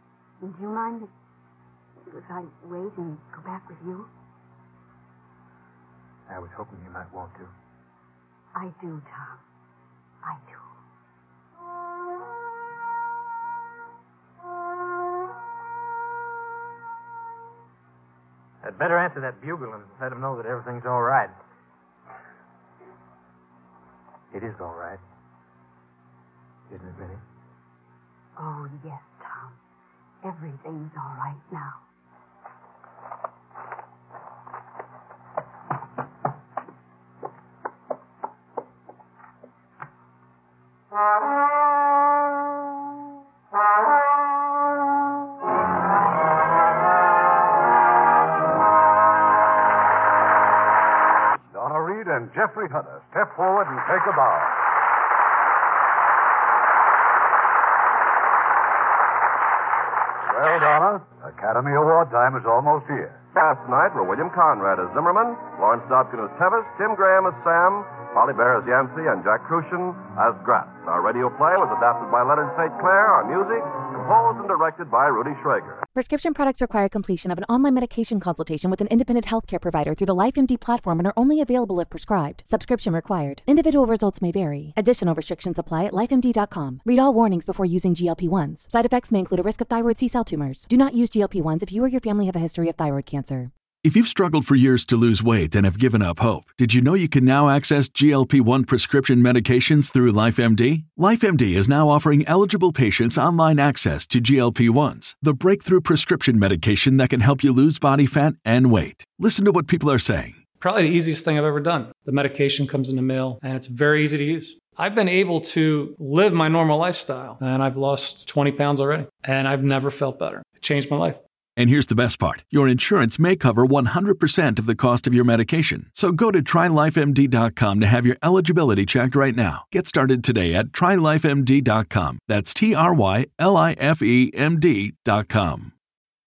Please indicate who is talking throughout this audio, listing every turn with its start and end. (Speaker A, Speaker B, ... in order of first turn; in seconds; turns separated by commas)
Speaker A: 0.4-1.1, Speaker A: 2.0-4.1, Speaker B: 6.3-7.5, Speaker A: 8.5-9.4, Speaker A: 10.2-10.7, Speaker B: 18.6-21.4, Speaker B: 24.3-25.0, Speaker B: 26.7-27.2, Speaker A: 28.4-29.6, Speaker A: 30.2-31.8, Speaker C: 51.5-54.6, Speaker C: 60.2-63.2, Speaker D: 63.3-75.8, Speaker E: 75.9-93.5, Speaker F: 93.8-110.4, Speaker G: 110.6-121.2, Speaker F: 121.6-135.7